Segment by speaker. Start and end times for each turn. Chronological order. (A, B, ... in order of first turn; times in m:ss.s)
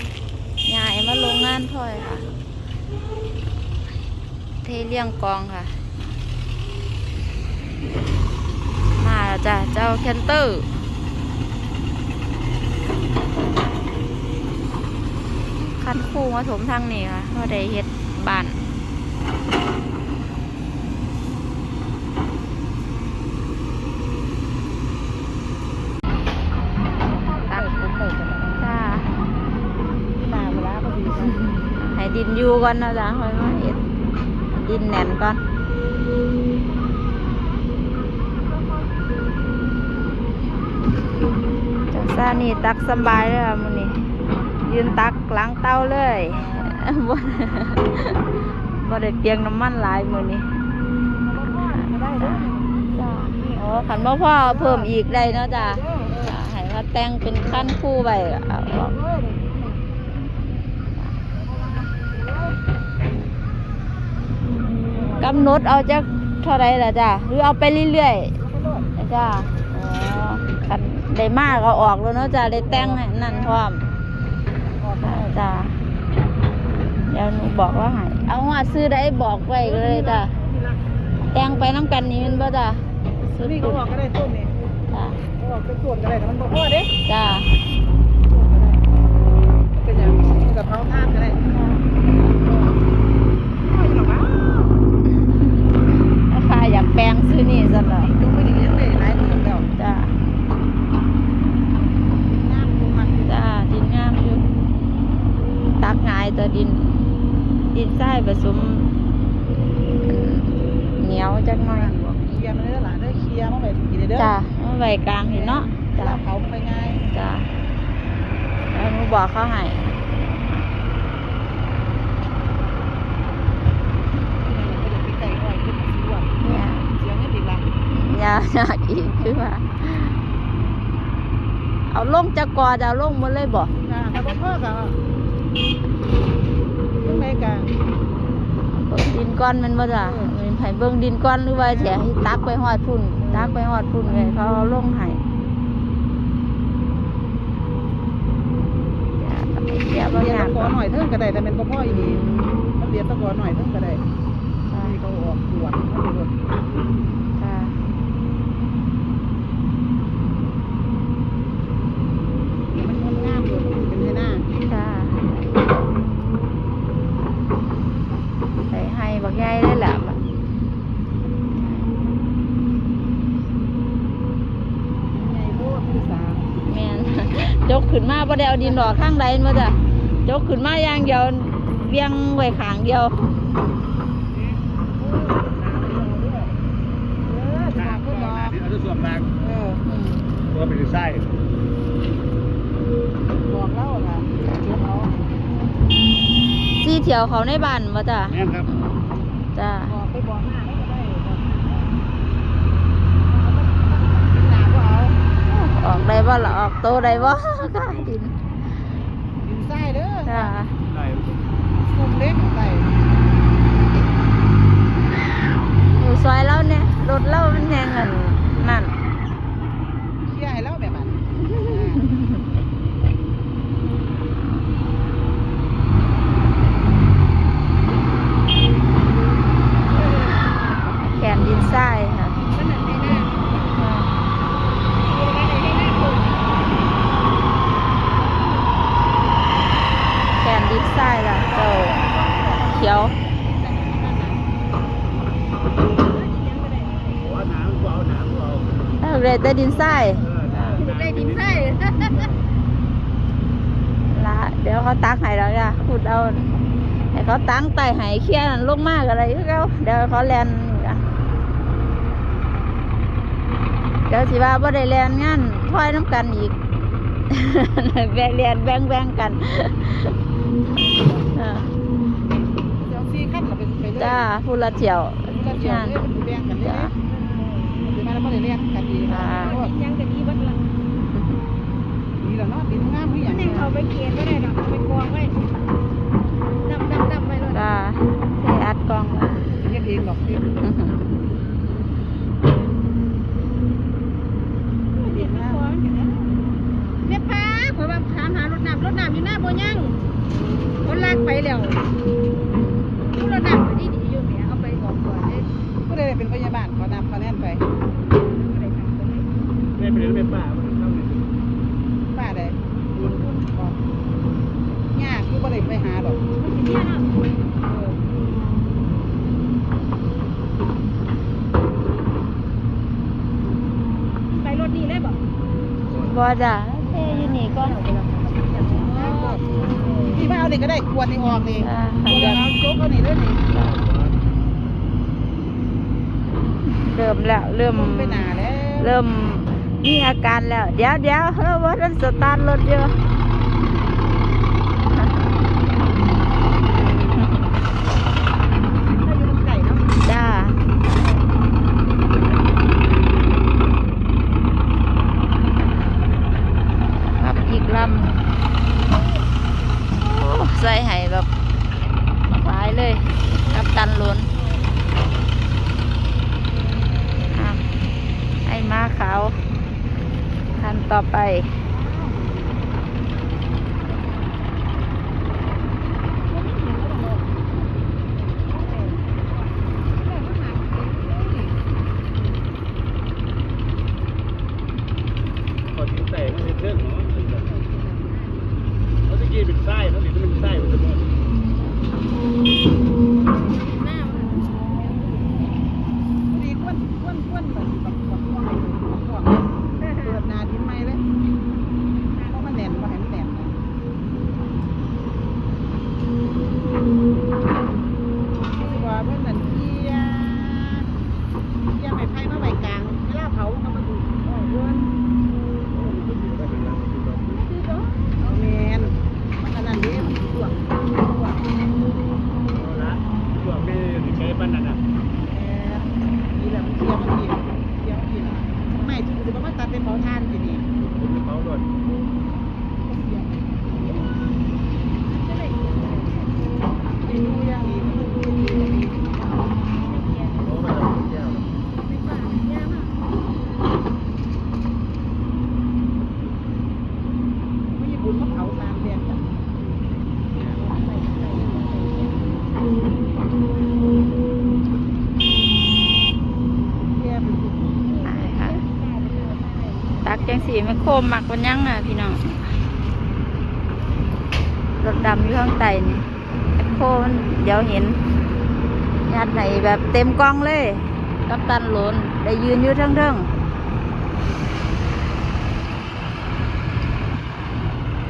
0:00.6-0:02.3 A
0:04.6-0:05.8 A
0:09.0-0:10.7 A
0:15.6-0:18.6 A
0:27.3-0:28.6 B
0:28.6-0:29.1 A
0:30.1-0:31.4 B
0:31.3-0:33.8 A
0:34.5-0:35.4 A
0:41.9-0:44.0 A
0:44.6-0:50.5 A
0:46.4-0:46.8 B
0:51.2-0:52.7 B
0:52.2-0:59.0 A
0:55.8-0:56.2 B
0:59.0-0:59.6 B
1:04.9-1:05.4 B
1:05.2-1:08.3 A
1:08.4-1:08.9 B
1:09.0-1:13.8 A
1:12.5-1:13.6 B
1:14.7-1:15.4 B
1:15.0-1:15.7 A
1:17.1-1:20.3 A
1:19.7-1:20.8 B
1:21.3-1:23.8 A
1:23.4-1:24.5 B
1:24.9-1:25.2 A
1:25.4-1:26.9 B
1:27.0-1:27.5 A
1:28.2-1:28.8 B
1:29.7-1:31.4 B
1:31.5-1:32.0 A
1:33.6-1:34.5 B
1:36.2-1:38.1 A
1:37.9-1:39.7 B
1:39.8-1:40.2 A
1:42.2-1:43.3 B
1:43.2-1:44.4 A
1:45.8-1:47.0 A
1:47.7-1:48.9 A
1:50.0-1:51.9 A
1:51.7-1:54.3 B
1:54.2-1:56.2 A
1:55.2-1:57.0 B
1:57.1-1:57.5 A
1:58.7-2:00.6 A
2:04.4-2:07.6 B
2:06.4-2:06.9 A
2:07.9-2:10.2 A
2:11.9-2:13.7 A
2:13.8-2:15.0 B
2:17.0-2:17.7 B
2:18.7-2:25.2 A
2:19.9-2:20.3 B
2:21.6-2:22.1 B
2:23.2-2:23.6 B
2:29.2-2:30.7 A
2:30.0-2:32.3 B
2:32.0-2:32.6 A
2:32.8-2:34.0 B
2:34.7-2:35.0 A
2:34.8-2:36.3 B
2:37.4-2:37.8 A
2:42.7-2:44.4 B
2:44.6-2:45.6 A
2:48.7-2:50.2 A
2:55.1-2:56.4 B
2:56.6-3:03.2 A
2:58.6-2:59.0 B
3:05.0-3:06.5 B
3:07.2-3:08.6 B
3:07.9-3:09.3 C
3:09.4-3:09.8 B
3:09.8-3:10.2 A
3:10.5-3:11.2 C
3:13.4-3:15.1 B
3:16.8-3:18.8 A
3:19.5-3:19.9 A
3:19.8-3:21.9 B
3:23.3-3:25.2 B
3:25.5-3:28.3 A
3:29.4-3:30.6 B
3:30.2-3:30.7 A
3:30.9-3:31.4 C
3:31.8-3:32.9 B
3:36.0-3:39.0 A
3:40.2-3:42.0 B
3:41.6-3:42.4 A
3:51.0-3:52.4 A
3:52.5-3:53.6 D
3:53.7-3:54.1 A
3:55.0-3:56.4 D
4:00.4-4:02.0 A
4:01.5-4:04.5 B
4:02.6-4:03.1 A
4:06.0-4:07.2 D
4:07.2-4:08.7 C
4:09.0-4:10.8 A
4:10.2-4:11.8 C
4:10.7-4:12.2 D
4:14.1-4:21.0 A
4:24.1-4:26.6 A
4:27.3-4:30.1 A
4:31.3-4:31.7 A
4:32.8-4:34.3 B
4:34.0-4:36.0 A
4:35.3-4:36.9 B
4:36.6-4:36.9 A
4:37.1-4:37.8 D
4:37.7-4:39.7 B
4:39.1-4:39.6 A
4:39.2-4:40.7 D
4:42.2-4:43.7 B
4:43.3-4:45.4 D
4:43.4-4:43.7 A
4:46.6-4:47.6 D
4:47.5-4:49.4 A
4:49.5-4:50.6 B
4:50.6-4:51.1 A
4:54.9-4:56.4 D
4:55.0-4:55.6 B
4:57.0-5:00.0 D
5:00.8-5:01.8 D
5:03.1-5:05.5 D
5:05.8-5:07.6 B
5:08.2-5:09.4 D
5:09.8-5:11.3 C
5:12.1-5:13.8 B
5:14.9-5:16.2 B
5:16.3-5:17.1 D
5:17.6-5:18.0 B
5:24.3-5:25.2 D
5:25.9-5:27.8 A
5:27.8-5:30.2 D
5:28.6-5:33.5 B
5:31.6-5:32.4 A
5:33.6-5:34.1 C
5:36.6-5:43.0 A
5:37.7-5:38.9 B
5:46.8-5:47.4 A
5:48.9-5:49.9 B
5:50.0-5:50.6 A
5:57.0-5:58.2 A
5:59.9-6:01.3 A
6:02.3-6:04.3 A
6:03.4-6:04.6 D
6:07.3-6:07.6 A
6:08.4-6:09.4 A
6:10.6-6:11.6 A
6:11.8-6:12.2 B
6:16.3-6:17.4 B
6:18.5-6:19.2 D
6:20.0-6:21.6 B
6:25.7-6:27.4 C
6:27.4-6:28.5 D
6:29.1-6:31.0 C
6:33.2-6:35.5 D
6:36.3-6:39.5 B
6:39.8-6:40.2 D
6:40.0-6:41.0 B
6:42.1-6:42.6 D
6:42.3-6:43.6 B
6:48.6-6:50.9 B
6:51.7-6:54.9 B
6:55.7-6:57.4 C
6:57.5-6:58.2 D
6:58.2-7:01.4 B
7:02.5-7:04.8 C
7:05.3-7:10.7 B
7:10.8-7:11.7 C
7:12.8-7:13.3 B
7:15.0-7:16.4 D
7:17.0-7:19.0 B
7:19.7-7:20.6 D
7:20.5-7:21.4 C
7:21.8-7:23.2 D
7:27.7-7:29.2 B
7:30.4-7:32.3 D
7:36.9-7:37.9 B
7:38.0-7:40.8 D
7:38.0-7:38.6 A
7:40.0-7:42.5 A
7:44.8-7:46.0 A
7:46.6-7:48.0 A
7:49.1-7:53.3 A